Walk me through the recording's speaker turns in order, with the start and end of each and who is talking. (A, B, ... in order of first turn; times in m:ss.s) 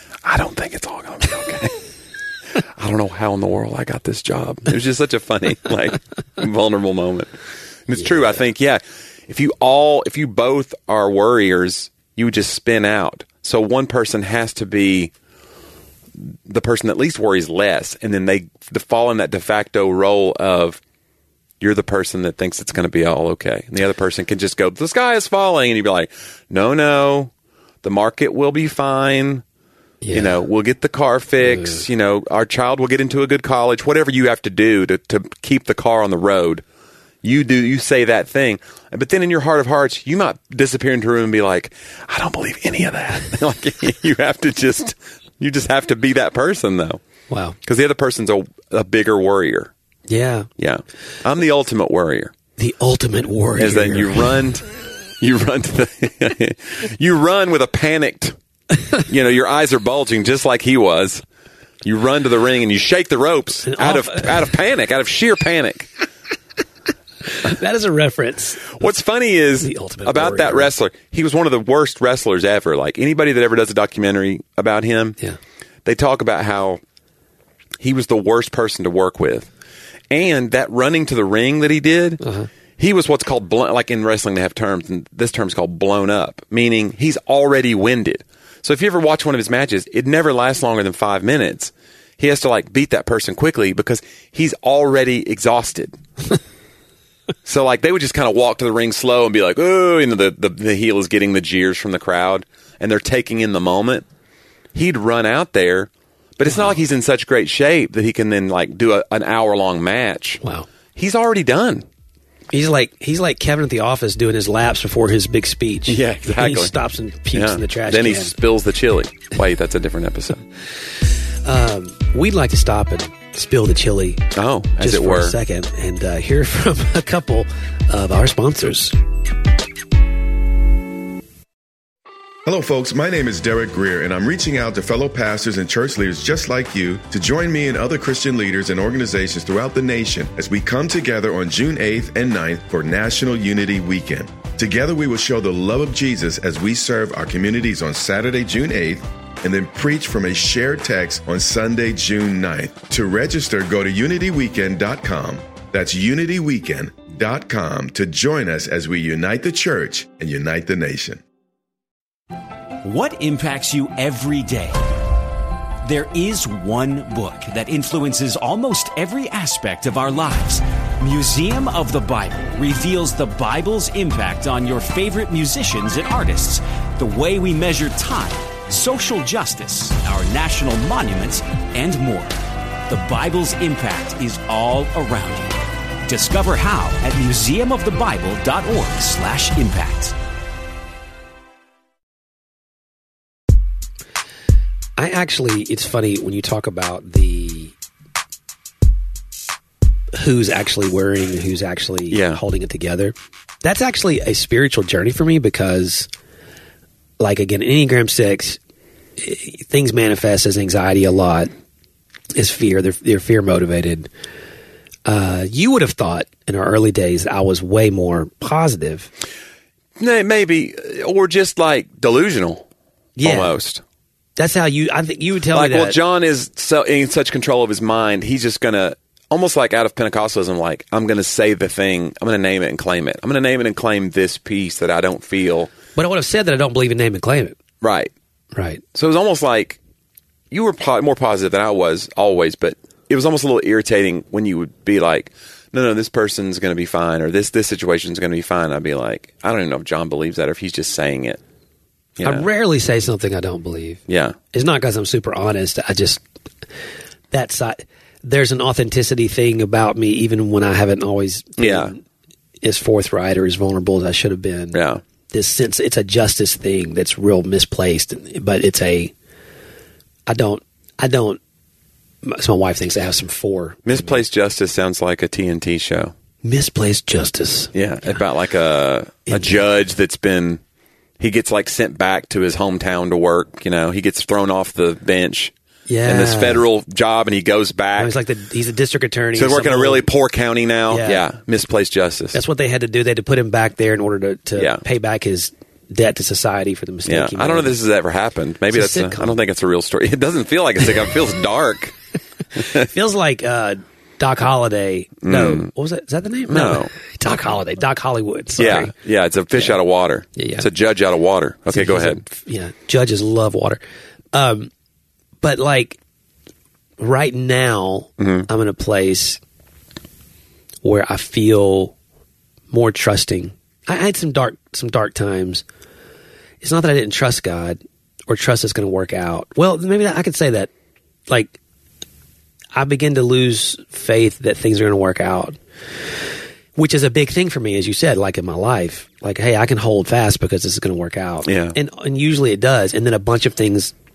0:00.2-0:01.8 A
0:02.5-0:07.3 A
0:07.9-0:15.1 A
0:16.2-0:20.8 A
0:21.6-0:27.3 A
0:27.8-0:29.4 A
0:30.0-0:30.4 B
0:30.1-0:36.6 A
0:31.4-0:31.8 B
0:37.2-0:47.0 A
0:47.3-0:47.6 B
0:47.6-0:49.7 A
0:50.1-0:50.5 B
0:50.6-0:52.3 A
0:52.6-0:54.3 B
0:53.6-0:54.7 A
0:55.2-0:58.4 A
0:58.9-1:01.2 A
1:01.8-1:05.9 A
1:03.6-1:04.5 B
1:07.4-1:08.8 B
1:08.7-1:15.2 A
1:09.6-1:10.7 B
1:15.8-1:16.8 A
1:17.8-1:19.5 A
1:20.1-1:22.2 A
1:22.2-1:22.5 B
1:22.8-1:36.0 A
1:37.4-1:44.0 A
1:44.7-1:50.4 A
1:46.5-1:46.7 B
1:50.4-1:50.7 B
1:50.9-1:51.8 A
1:52.5-1:58.4 B
1:55.9-1:56.7 A
1:57.3-2:00.4 A
2:01.4-2:04.2 B
2:04.3-2:05.4 A
2:04.8-2:09.0 B
2:12.4-2:41.2 C
2:42.8-2:44.8 D
2:45.8-3:02.3 D
3:02.9-3:10.1 D
3:15.0-3:17.7 B
3:20.1-3:26.1 B
3:22.1-3:22.4 A
3:27.2-3:28.6 B
3:29.2-3:31.5 B
3:32.3-3:34.1 B
3:35.0-3:39.1 B
3:40.0-3:42.6 A
3:43.2-3:43.6 B
3:43.2-3:43.8 A
3:44.4-3:46.0 B
3:45.5-3:55.7 A
3:56.0-3:57.6 B
3:57.8-3:58.1 A
3:58.5-3:58.8 B
3:58.9-3:59.8 A
4:00.5-4:11.4 A
4:12.2-4:12.5 A
4:12.2-4:14.0 B
4:14.1-4:14.4 A
4:14.5-4:16.2 B
4:17.3-4:22.0 B
4:21.6-4:21.9 A
4:22.6-4:29.1 B
4:24.7-4:25.0 A
4:30.3-4:31.4 B
4:32.2-4:34.2 B
4:33.8-4:36.1 A
4:36.4-4:38.2 B
4:37.7-4:40.6 A
4:39.3-4:39.6 B
4:41.2-4:45.5 A
4:45.9-4:46.6 B
4:46.0-4:48.1 A
4:48.0-4:50.1 B
4:49.3-4:52.4 A
4:50.9-4:51.2 B
4:52.3-4:57.7 B
4:54.6-4:54.8 A
4:57.0-5:01.9 A
4:58.7-4:59.4 B
5:02.5-5:02.9 A
5:02.6-5:08.9 B
5:05.2-5:05.7 A
5:06.5-5:06.9 A
5:08.6-5:12.2 A
5:10.4-5:10.7 B
5:11.7-5:13.8 B
5:14.3-5:14.7 B
5:15.4-5:16.0 B
5:17.0-5:19.4 B
5:18.2-5:18.5 A
5:20.8-5:21.9 B
5:22.7-5:25.6 B
5:26.6-5:30.7 B
5:31.3-5:31.6 B
5:32.7-5:35.6 B
5:36.8-5:43.9 B
5:41.4-5:41.8 A